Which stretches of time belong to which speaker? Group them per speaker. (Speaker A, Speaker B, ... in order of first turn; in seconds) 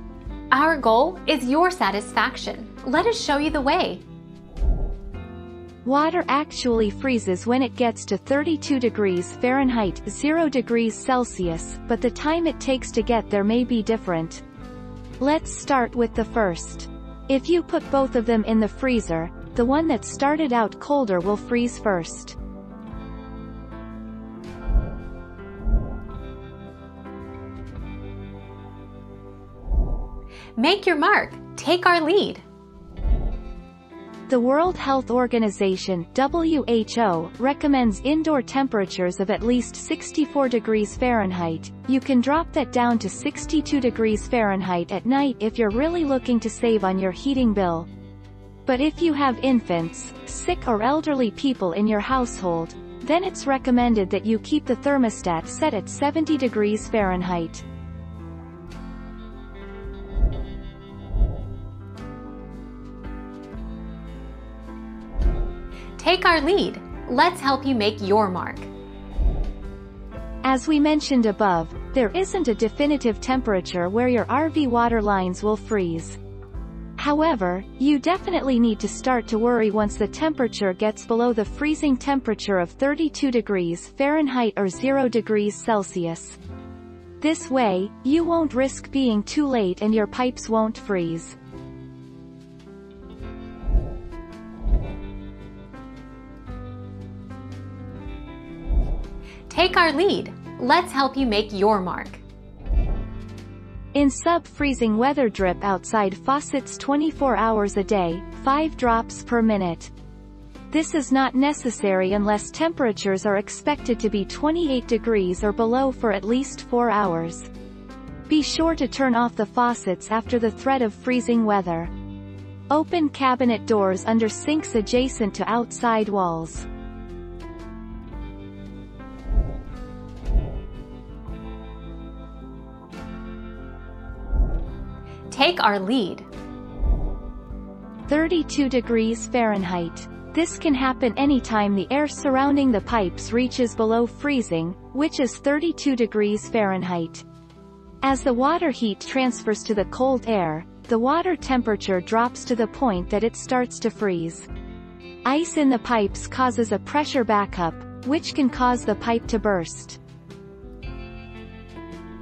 Speaker A: 0.5-4.0, 30.6-32.4, 66.0-68.7, 99.5-102.2, 135.3-136.3
Speaker B: 5.8-14.4, 15.2-22.4, 34.3-47.9, 48.6-57.6, 70.4-76.2, 77.0-86.4, 87.2-91.3, 103.9-109.9, 110.7-117.5, 118.3-121.9, 122.7-126.7, 138.1-147.2, 148.0-154.5, 155.2-160.0